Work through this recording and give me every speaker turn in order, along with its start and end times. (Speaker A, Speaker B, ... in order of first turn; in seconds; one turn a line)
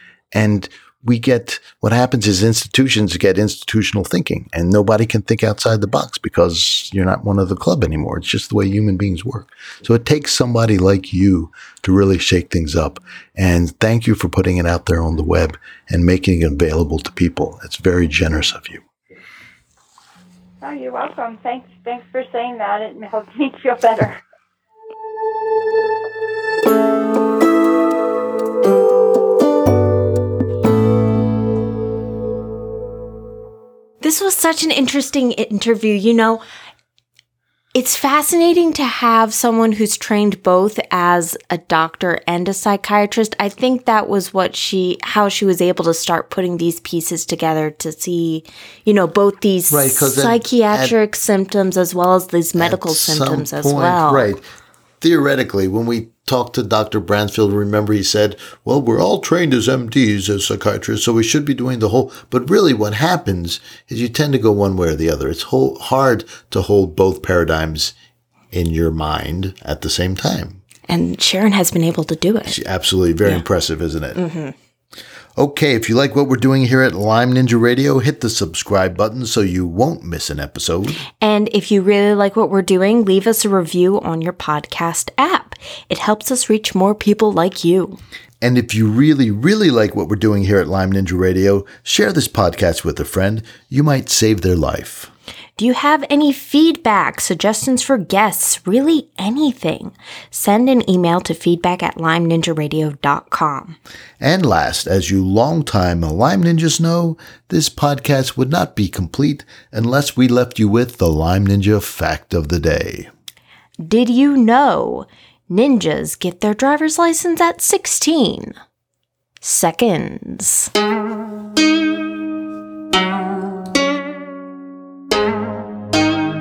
Speaker A: 0.3-18.8
Speaker B: 20.6-24.2
Speaker C: 34.0-36.4
Speaker C: 37.7-54.3
Speaker A: 49.7-51.0
Speaker A: 52.5-54.4
Speaker A: 55.0-67.9
Speaker A: 68.5-70.6
Speaker C: 70.9-72.6
Speaker A: 72.5-74.2
Speaker C: 74.1-74.5
Speaker A: 75.4-81.0
Speaker C: 81.2-88.0
Speaker A: 88.4-95.1
Speaker C: 95.6-103.8
Speaker A: 104.2-113.1
Speaker C: 113.8-118.5
Speaker C: 119.4-120.7